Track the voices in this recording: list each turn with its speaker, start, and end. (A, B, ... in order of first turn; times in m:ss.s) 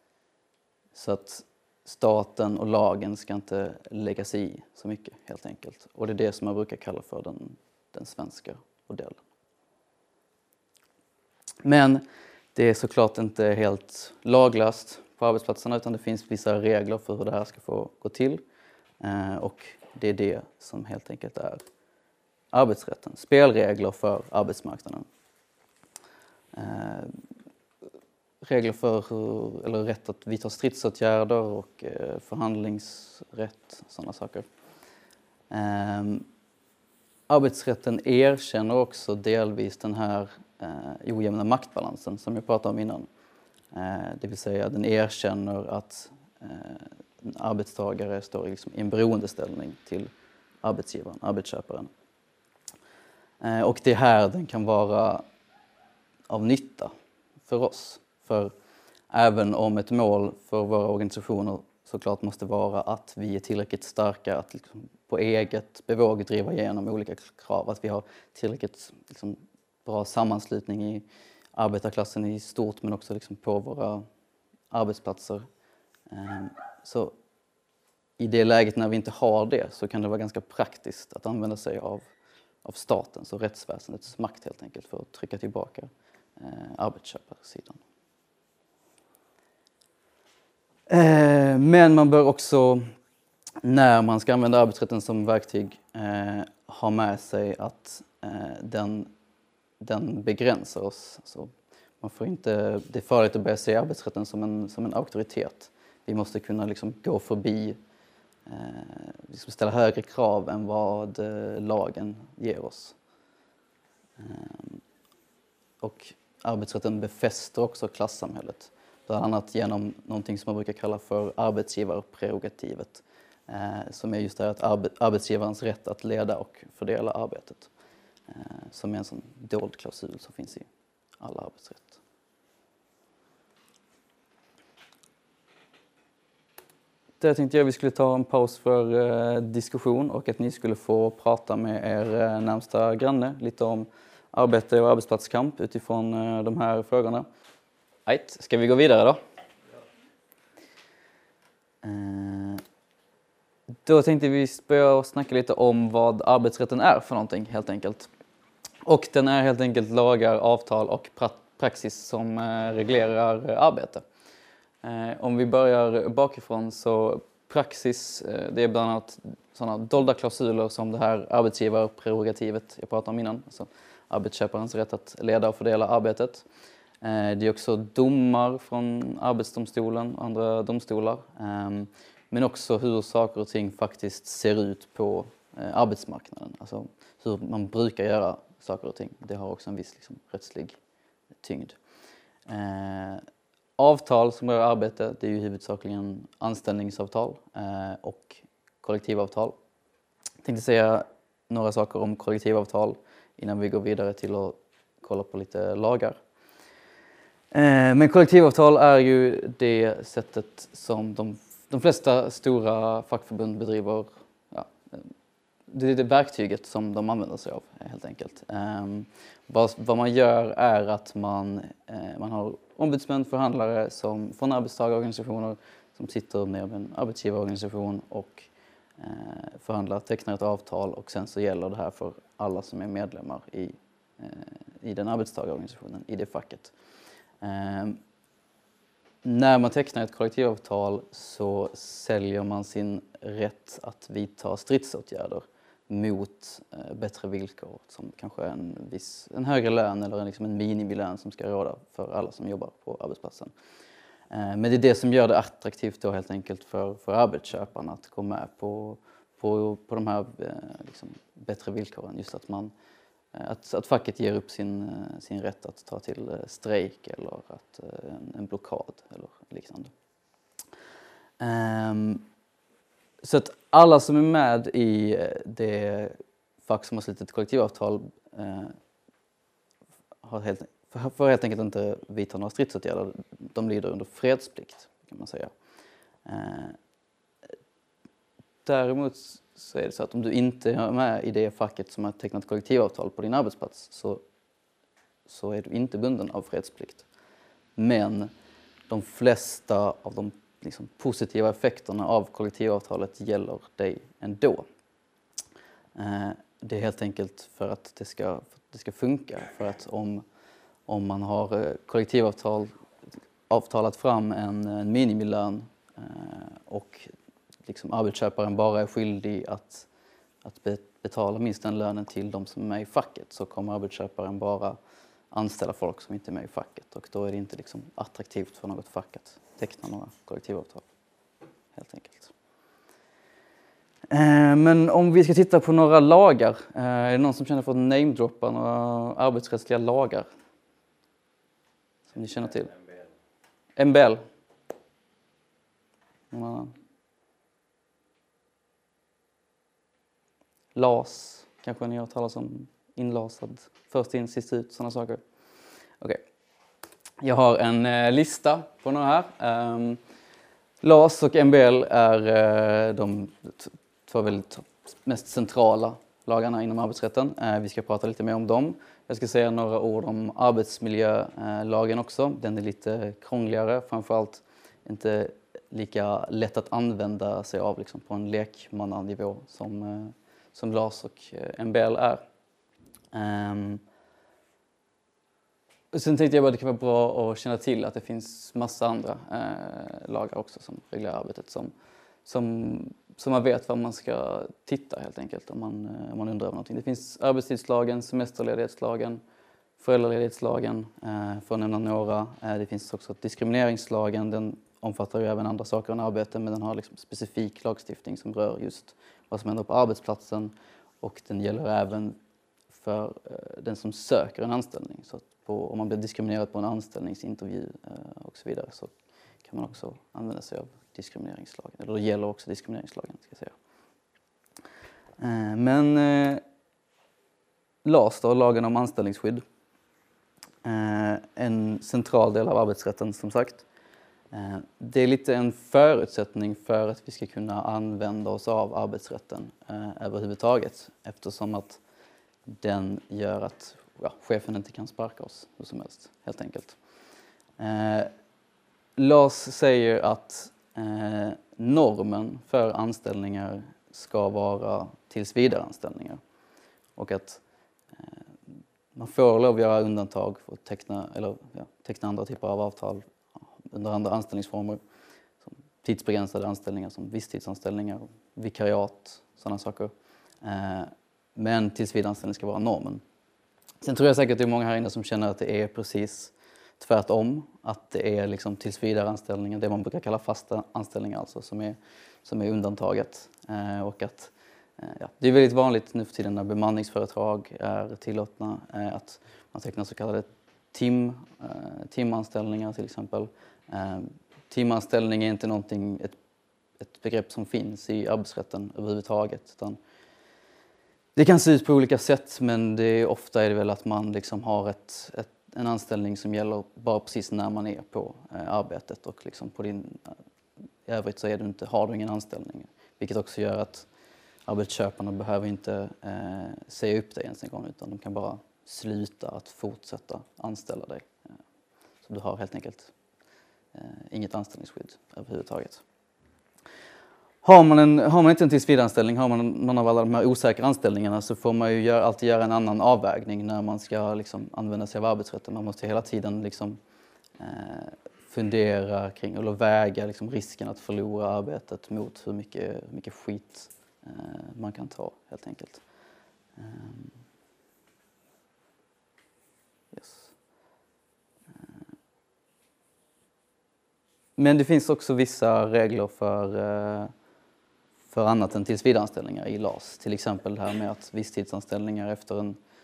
0:00.9-0:09.2 A
0:11.6-0:12.0 A
0:12.6-0:18.4 A
0:19.0-0:21.6 A
0:22.5-0:25.1 A
0:26.5-0:27.2 A
0:28.4-0:34.5 A
0:35.5-0:36.3 A
0:37.3-0:43.1 A
0:43.7-0:50.1 A
0:50.6-0:51.9 A
0:53.4-0:55.2 A
0:56.3-0:56.9 A
0:57.4-0:58.5 A
0:59.1-1:14.1 A
1:14.7-1:15.5 A
1:16.1-1:17.2 A
1:18.2-1:22.1 A
1:22.6-1:27.8 A
1:30.9-1:32.9 A
1:33.6-1:39.1 A
1:39.8-1:47.8 A
1:48.5-1:53.0 A
1:54.2-1:54.8 A
1:55.8-2:07.7 A
2:08.3-2:10.7 A
2:11.2-2:12.0 A
2:17.2-2:27.3 A
2:28.1-2:29.2 A
2:31.8-2:32.6 A
2:33.8-2:38.1 A
2:38.9-2:44.0 A
2:44.8-2:56.4 A
2:57.0-3:10.8 A
3:11.4-3:11.8 A
3:12.5-3:13.2 A
3:13.8-3:19.6 A
3:20.4-3:26.2 A
3:27.5-3:35.1 A
3:35.7-3:56.7 A
3:57.4-3:58.0 A
3:59.2-4:13.5 A
4:14.3-4:22.7 A
4:23.3-4:29.9 A
4:31.4-4:32.3 A
4:33.2-4:38.8 A
4:40.2-4:45.5 A
4:46.2-4:46.8 A
4:48.6-4:54.2 A
4:55.3-4:57.1 A
4:57.8-4:58.3 A
4:58.9-5:04.7 A
5:06.0-5:10.2 A
5:10.9-5:12.7 A
5:13.5-5:17.1 A
5:17.7-5:19.9 A
5:20.4-5:24.8 A
5:25.3-5:30.9 A
5:31.8-5:32.3 A
5:34.1-5:40.3 A
5:42.1-5:42.8 A
5:43.8-5:44.2 A
5:46.3-5:46.8 A
5:50.8-5:55.2 A
5:57.2-6:00.0 A
6:00.8-6:22.2 A
6:23.1-6:23.8 A
6:25.9-6:31.7 A
6:32.2-6:39.2 A
6:39.8-6:52.2 A
6:52.7-6:58.9 A
6:59.4-7:03.5 A
7:05.2-7:06.4 A
7:07.8-7:09.4 A
7:10.6-7:13.6 A
7:14.3-7:21.8 A
7:22.5-7:26.8 A
7:27.6-7:28.1 A
7:29.0-7:36.2 A
7:37.0-7:37.4 A
7:37.9-7:38.2 A
7:38.9-7:43.1 A
7:43.6-7:44.8 A
7:45.4-7:53.0 A
7:53.8-8:16.2 A
8:16.8-8:19.8 A
8:21.2-8:30.2 A
8:30.8-8:33.9 A
8:34.5-8:41.2 A
8:42.0-8:42.9 A
8:43.7-8:45.8 A
8:47.4-8:56.8 A
8:57.4-9:05.8 A
9:06.6-9:07.2 A
9:09.9-9:10.3 A
9:14.4-9:17.1 A
9:18.1-9:22.6 A